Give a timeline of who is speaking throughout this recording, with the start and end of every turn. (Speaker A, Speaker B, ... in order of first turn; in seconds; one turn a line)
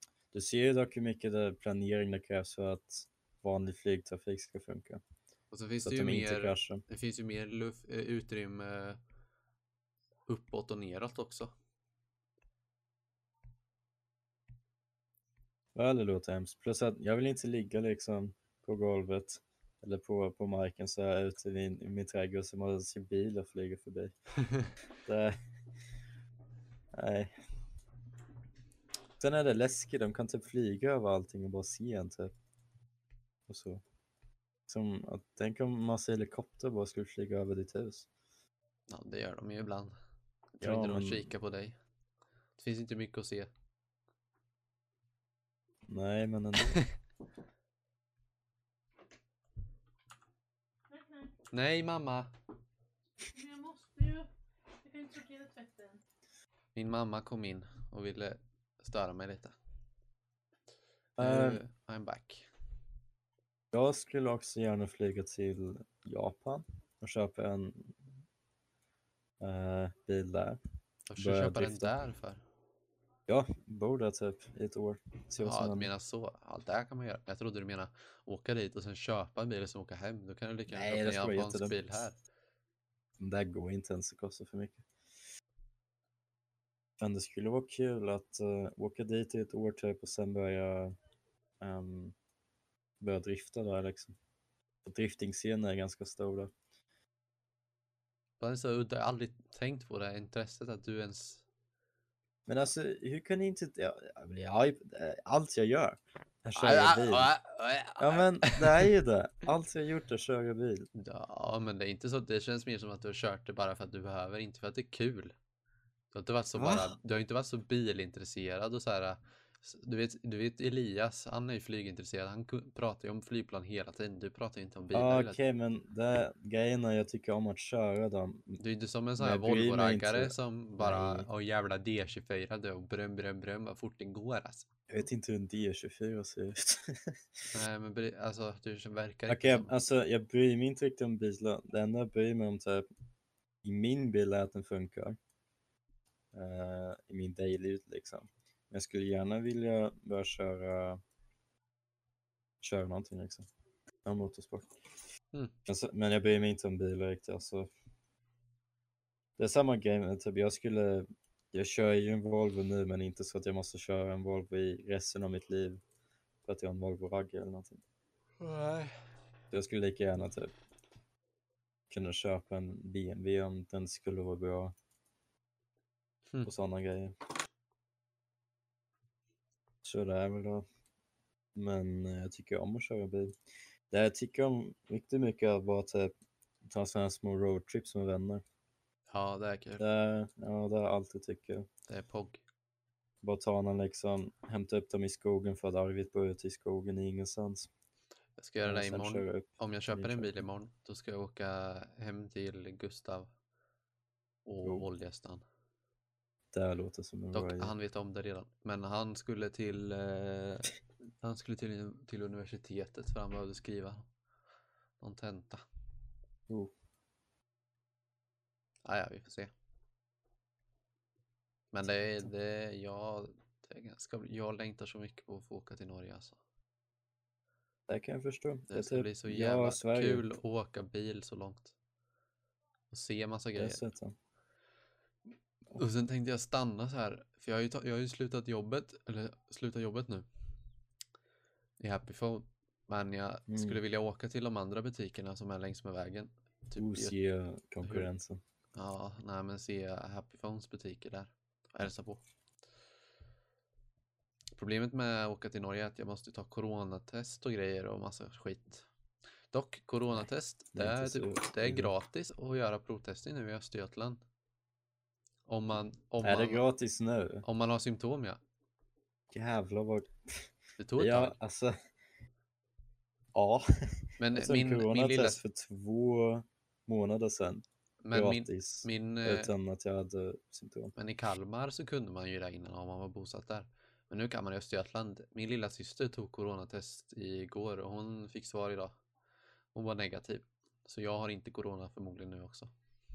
Speaker A: 0.3-5.0
Speaker B: 5.5-9.0
Speaker A: 5.8-6.8
Speaker B: 10.3-11.5
Speaker A: 15.8-24.1
Speaker A: 25.0-25.4
Speaker A: 26.9-27.4
Speaker A: 29.2-32.3
Speaker A: 33.5-33.8
Speaker A: 34.7-38.1
Speaker B: 38.9-39.9
Speaker B: 40.6-41.8
Speaker A: 40.6-41.3
Speaker B: 42.6-43.5
Speaker A: 45.9-46.8
Speaker C: 50.9-51.3
Speaker B: 51.5-52.3
Speaker C: 53.3-54.3
Speaker C: 54.8-56.0
Speaker B: 56.8-59.5
Speaker A: 61.2-61.6
Speaker B: 61.2-62.5
Speaker A: 63.7-68.0
Speaker A: 69.4-70.6
Speaker B: 71.1-72.4
Speaker A: 71.2-71.9
Speaker A: 73.3-75.9
Speaker B: 75.4-82.2
Speaker A: 80.7-82.0
Speaker A: 83.2-84.8
Speaker A: 87.0-91.0
Speaker A: 91.6-92.1
Speaker A: 93.0-94.1
Speaker A: 94.8-96.5
Speaker B: 98.4-101.4
Speaker A: 102.5-107.3
Speaker B: 106.5-108.9
Speaker A: 108.0-110.9
Speaker B: 110.9-115.3
Speaker B: 116.1-125.4
Speaker A: 116.5-116.9
Speaker A: 124.9-128.6
Speaker B: 128.6-134.7
Speaker A: 129.2-131.3
Speaker A: 134.9-137.5
Speaker B: 137.5-139.8
Speaker A: 139.3-142.9
Speaker A: 143.6-145.2
Speaker A: 146.3-151.0
Speaker A: 152.6-153.5
Speaker A: 154.0-154.7
Speaker A: 155.7-157.7
Speaker A: 159.4-165.8
Speaker A: 166.4-167.8
Speaker B: 168.4-169.0
Speaker A: 169.5-170.5
Speaker A: 171.9-174.7
Speaker A: 176.4-177.1
Speaker A: 179.8-180.7
Speaker A: 181.6-183.4
Speaker A: 183.9-186.1
Speaker A: 186.6-188.4
Speaker B: 189.1-189.8
Speaker A: 189.8-191.7
Speaker B: 191.9-192.4
Speaker A: 193.2-197.7
Speaker B: 198.4-203.3
Speaker A: 198.6-200.4
Speaker B: 204.4-205.4
Speaker A: 206.5-207.7
Speaker B: 207.3-214.1
Speaker B: 215.0-215.6
Speaker B: 218.8-219.5
Speaker B: 221.7-226.4
Speaker A: 227.9-230.2
Speaker B: 228.7-231.7
Speaker B: 232.9-233.9
Speaker A: 233.6-234.1
Speaker B: 235.7-240.2
Speaker B: 241.8-247.1
Speaker A: 243.5-243.8
Speaker A: 246.8-248.4
Speaker B: 248.7-252.2
Speaker B: 254.6-258.9
Speaker B: 259.5-264.2
Speaker A: 260.1-261.9
Speaker B: 265.5-266.6
Speaker A: 266.2-267.4
Speaker B: 267.4-268.4
Speaker A: 269.3-271.8
Speaker B: 270.8-271.4
Speaker A: 273.3-280.9
Speaker B: 274.2-275.4
Speaker B: 278.0-279.5
Speaker B: 280.9-288.9
Speaker B: 289.7-292.7